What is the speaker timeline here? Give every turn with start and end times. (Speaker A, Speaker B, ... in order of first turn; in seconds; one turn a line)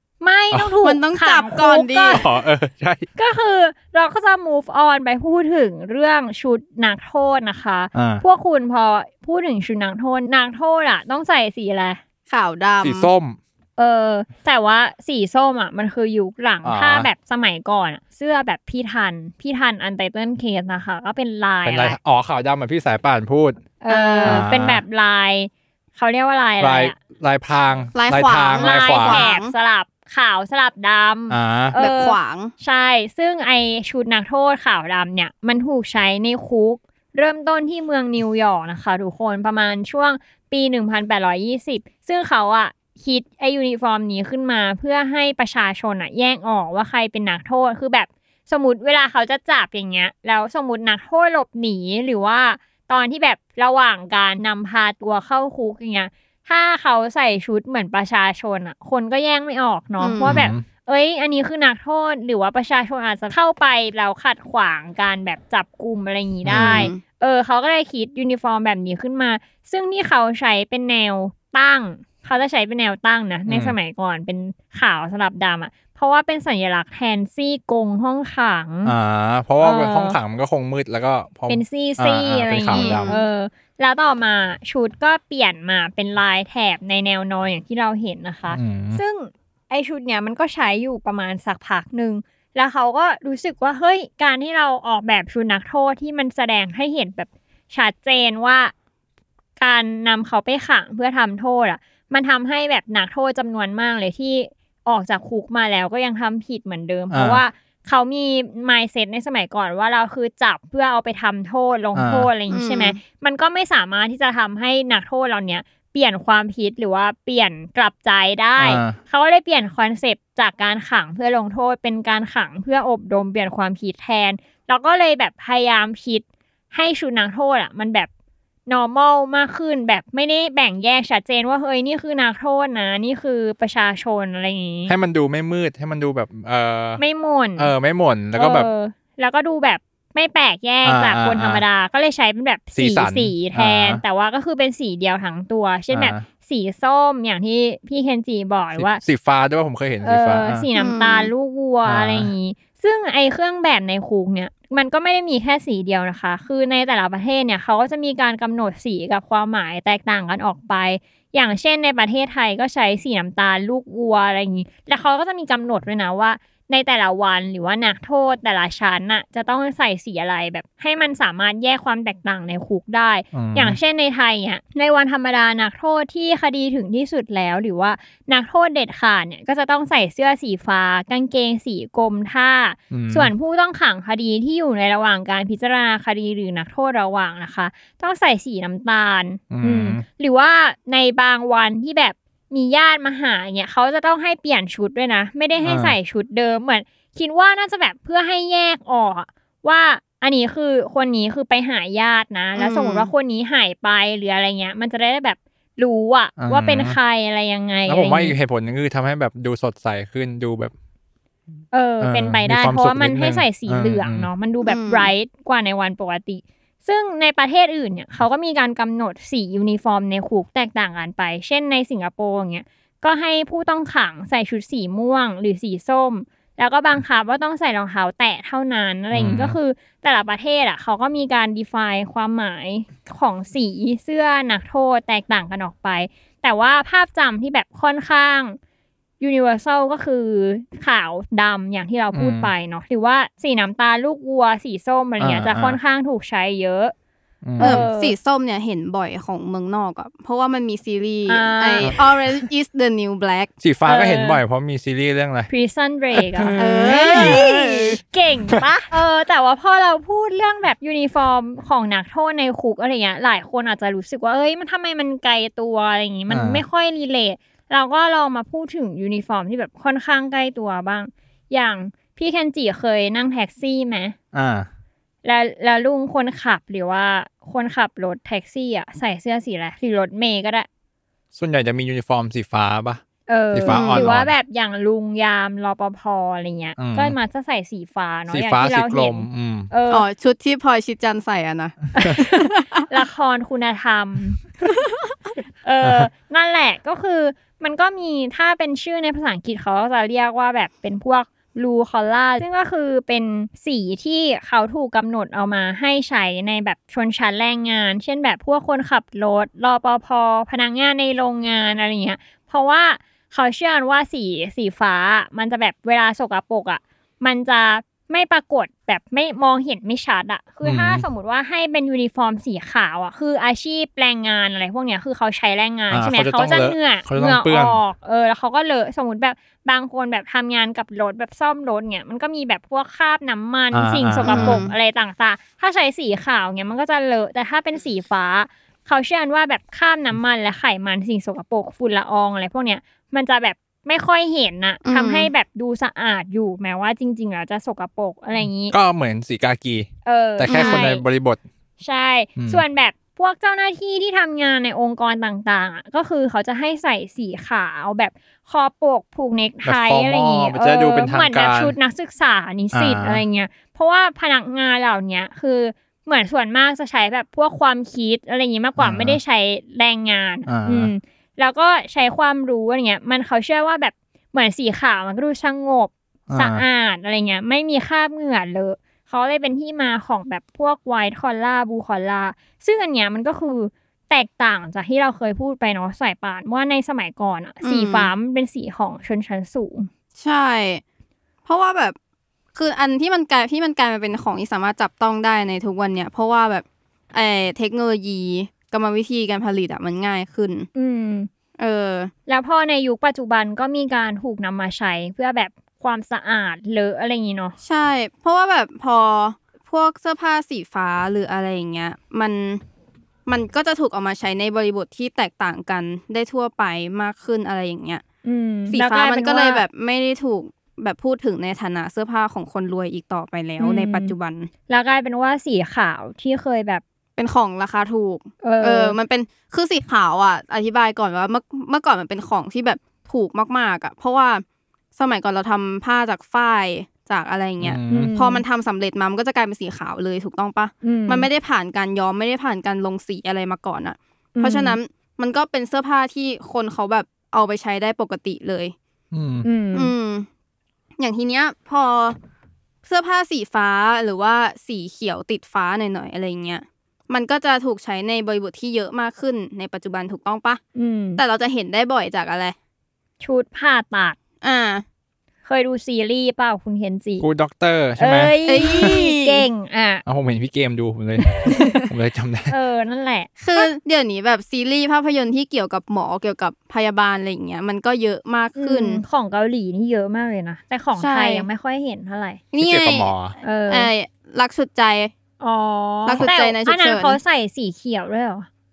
Speaker A: 0.2-2.2
Speaker B: 0.8-2.2
Speaker C: 2.1-3.0
Speaker A: 3.1-12.0
Speaker C: 7.9-8.2
Speaker B: 12.3-13.1
Speaker C: 12.8-13.4
Speaker A: 13.8-22.0
Speaker C: 16.6-17.1
Speaker C: 21.6-23.6
Speaker A: 23.8-26.9
Speaker B: 23.9-24.5
Speaker C: 24.2-24.8
Speaker C: 26.6-29.2
Speaker B: 27.9-29.5
Speaker A: 28.6-78.9
Speaker C: 31.3-31.8
Speaker B: 31.8-32.5
Speaker B: 60.0-60.4
Speaker C: 60.2-60.6
Speaker C: 66.4-66.9
Speaker B: 66.5-67.0
Speaker C: 73.5-73.8
Speaker C: 78.8-83.2
Speaker A: 79.6-80.2
Speaker A: 81.5-98.7
Speaker B: 82.7-83.2
Speaker C: 88.5-89.0
Speaker A: 99.6-128.1
Speaker C: 107.1-107.4
Speaker C: 111.9-112.3
Speaker B: 112.5-113.0
Speaker C: 118.6-119.0
Speaker A: 128.7-134.9
Speaker C: 134.9-137.0
Speaker A: 137.0-137.7
Speaker C: 137.6-138.7
Speaker A: 138.3-149.0
Speaker C: 140.8-141.6
Speaker C: 142.8-144.0
Speaker C: 145.9-146.2
Speaker C: 148.7-150.6
Speaker A: 150.0-208.3
Speaker B: 150.8-151.3
Speaker C: 151.8-152.3
Speaker C: 173.3-173.8
Speaker C: 182.9-183.3
Speaker C: 189.5-190.0
Speaker C: 195.6-195.9
Speaker B: 202.6-203.1
Speaker C: 206.4-207.0
Speaker C: 207.9-210.7
Speaker A: 211.7-238.6
Speaker C: 212.0-214.3
Speaker B: 214.6-215.1
Speaker C: 229.1-229.6
Speaker A: 239.2-246.9
Speaker C: 242.1-242.5
Speaker C: 245.2-245.8
Speaker C: 247.4-247.8
Speaker A: 247.6-248.1
Speaker B: 247.6-253.5
Speaker A: 251.3-251.9
Speaker C: 253.6-255.5
Speaker A: 253.8-254.4
Speaker A: 255.5-274.1
Speaker C: 256.1-257.4
Speaker B: 256.6-258.0
Speaker C: 266.3-266.6
Speaker C: 274.3-274.7
Speaker A: 275.2-280.7
Speaker C: 281.3-284.3
Speaker A: 283.3-290.1
Speaker B: 283.7-284.1
Speaker C: 286.8-287.1
Speaker C: 288.3-289.7
Speaker B: 289.9-292.6
Speaker A: 291.9-294.4
Speaker A: 295.6-348.7
Speaker C: 295.8-296.1
Speaker C: 320.6-321.0
Speaker C: 325.9-327.8
Speaker C: 333.7-334.6
Speaker B: 334.2-334.7
Speaker B: 344.8-345.3
Speaker C: 348.4-351.4
Speaker A: 350.0-351.0
Speaker B: 350.5-350.9
Speaker A: 351.8-389.9
Speaker C: 352.4-352.6
Speaker C: 359.6-361.7
Speaker C: 362.7-363.2
Speaker C: 368.8-369.2
Speaker C: 370.5-370.9
Speaker C: 376.3-376.6
Speaker B: 387.6-388.1
Speaker B: 390.2-390.8
Speaker B: 391.4-391.9
Speaker B: 392.5-400.7
Speaker A: 400.8-401.3
Speaker B: 401.6-402.1
Speaker A: 402.3-407.6
Speaker B: 407.6-412.6
Speaker B: 413.3-418.0
Speaker A: 418.2-419.6
Speaker B: 418.7-424.5
Speaker A: 423.6-424.1
Speaker A: 424.7-426.8
Speaker B: 427.2-434.4
Speaker A: 428.4-428.9
Speaker B: 434.9-448.7
Speaker C: 437.6-438.1
Speaker A: 437.9-438.4
Speaker A: 440.8-441.3
Speaker A: 444.4-444.8
Speaker C: 449.1-449.5
Speaker A: 449.4-449.9
Speaker B: 449.7-450.3
Speaker B: 451.0-452.2
Speaker B: 452.8-460.6
Speaker A: 460.8-461.2
Speaker B: 461.2-462.5
Speaker A: 463.2-464.2
Speaker B: 464.4-464.8
Speaker A: 465.4-467.3
Speaker C: 467.2-468.4
Speaker A: 468.0-470.0
Speaker B: 468.4-469.5
Speaker C: 470.1-472.5
Speaker A: 471.4-471.8
Speaker A: 472.5-473.7
Speaker B: 473.4-479.0
Speaker A: 478.6-482.4
Speaker B: 481.0-481.4
Speaker B: 482.5-483.1
Speaker C: 482.6-483.3
Speaker A: 483.4-483.9
Speaker B: 483.7-485.1
Speaker A: 485.4-488.5
Speaker B: 486.1-487.2